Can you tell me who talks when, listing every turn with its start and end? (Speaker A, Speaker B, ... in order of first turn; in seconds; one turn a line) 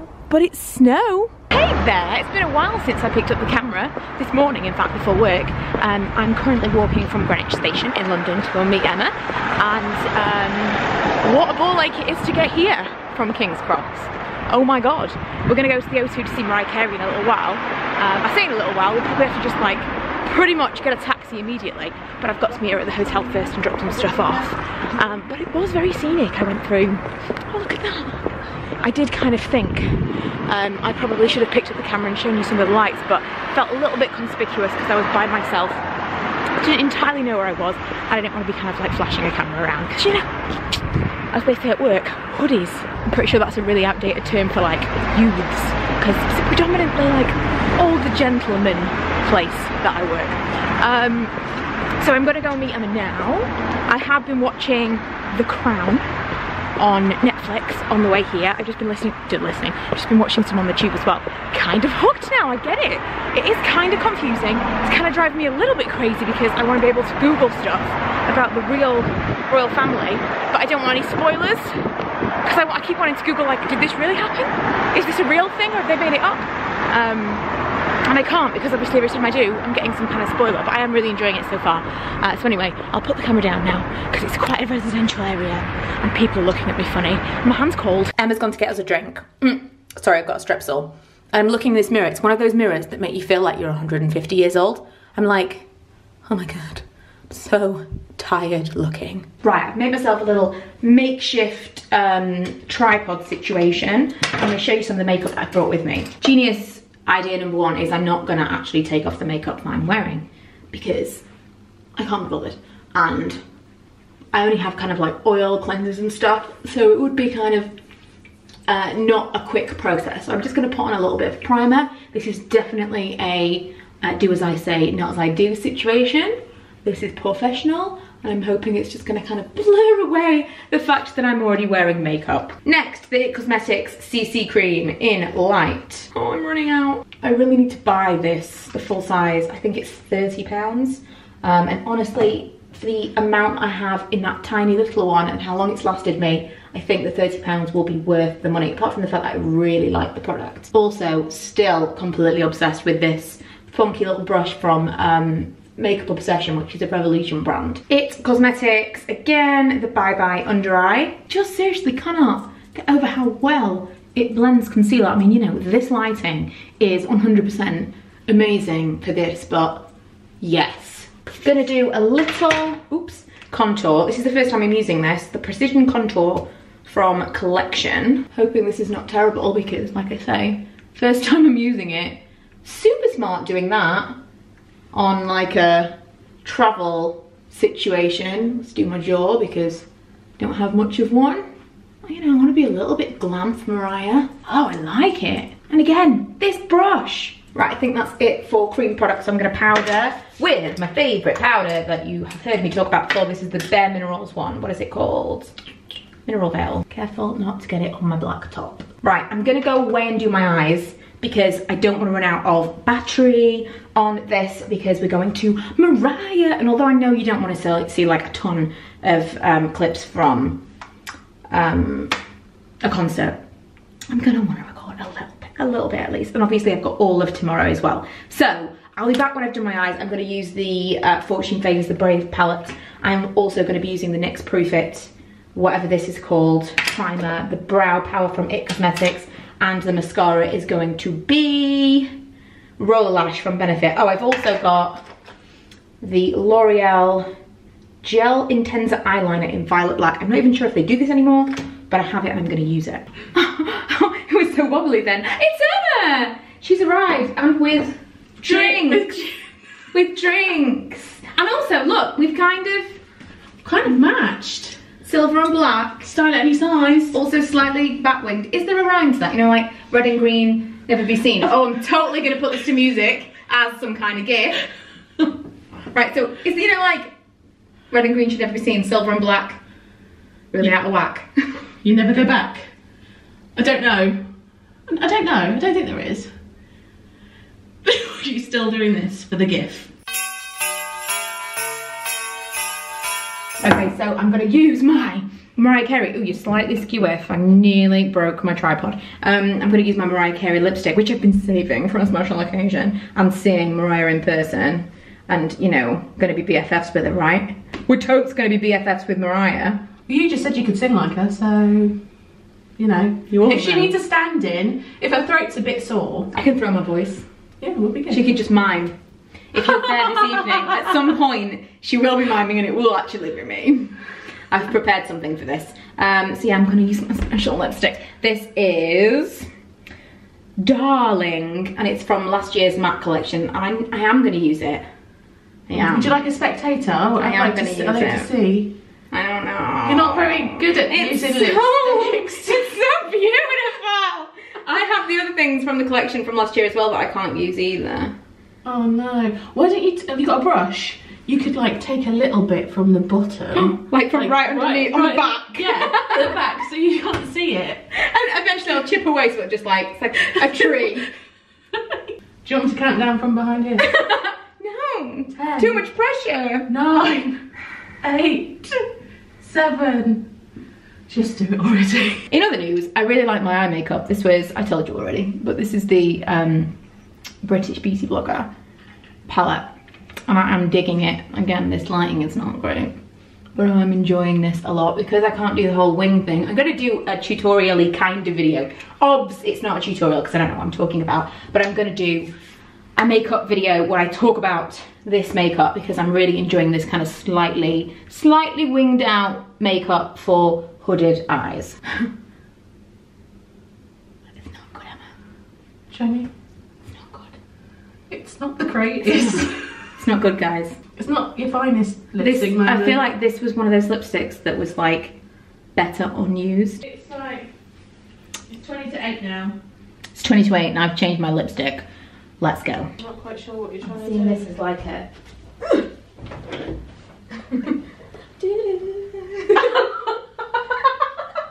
Speaker A: 0.3-35.8
Speaker A: 36.6-40.4
Speaker A: 41.3-51.3
Speaker A: 52.0-56.1
Speaker A: 56.8-71.8
Speaker A: 72.4-77.5
Speaker A: 78.1-95.7
Speaker A: 96.2-111.2
Speaker A: 112.0-113.4
Speaker A: 114.3-117.7
Speaker A: 118.7-169.9
Speaker A: 170.4-184.2
Speaker A: 184.9-189.8
Speaker A: 190.4-191.4
Speaker A: 192.0-205.5
Speaker A: 206.2-220.6
Speaker A: 221.5-222.1
Speaker A: 222.8-223.4
Speaker A: 224.1-242.1
Speaker A: 242.8-245.0
Speaker A: 246.0-247.3
Speaker A: 248.0-259.1
Speaker B: 258.4-259.4
Speaker A: 259.9-263.0
Speaker B: 263.6-264.8
Speaker A: 265.0-266.1
Speaker B: 266.0-267.1
Speaker A: 267.1-274.7
Speaker A: 275.9-277.1
Speaker A: 277.9-279.6
Speaker A: 280.5-281.6
Speaker B: 281.8-282.7
Speaker B: 283.6-284.2
Speaker B: 284.9-286.3
Speaker B: 287.8-289.9
Speaker A: 293.6-309.8
Speaker B: 310.1-312.0
Speaker B: 312.8-316.3
Speaker A: 313.3-313.9
Speaker A: 316.3-317.2
Speaker B: 317.6-318.2
Speaker A: 318.1-318.9
Speaker A: 319.5-329.5
Speaker A: 330.6-334.8
Speaker A: 335.7-336.2
Speaker B: 335.7-338.7
Speaker A: 337.2-338.3
Speaker A: 339.1-348.1
Speaker B: 339.9-342.7
Speaker B: 348.6-357.8
Speaker A: 353.5-356.3
Speaker A: 357.9-361.1
Speaker B: 360.4-360.9
Speaker B: 361.7-363.9
Speaker A: 363.8-366.7
Speaker B: 365.3-365.8
Speaker B: 366.7-367.4
Speaker B: 368.0-368.8
Speaker B: 369.4-370.3
Speaker B: 371.1-372.2
Speaker A: 372.3-376.7
Speaker A: 377.4-378.5
Speaker A: 379.3-379.7
Speaker A: 380.3-382.9
Speaker A: 383.6-392.3
Speaker A: 393.0-402.1
Speaker A: 404.3-405.1
Speaker B: 405.9-406.3
Speaker A: 406.9-407.4
Speaker B: 408.1-409.8
Speaker A: 409.0-410.8
Speaker B: 411.0-413.0
Speaker A: 412.2-415.1
Speaker A: 415.8-416.8
Speaker B: 416.8-417.5
Speaker B: 418.5-419.6
Speaker A: 420.1-421.8
Speaker A: 422.4-422.9
Speaker B: 423.0-424.4
Speaker A: 423.8-425.1
Speaker A: 428.4-429.4
Speaker B: 429.1-429.9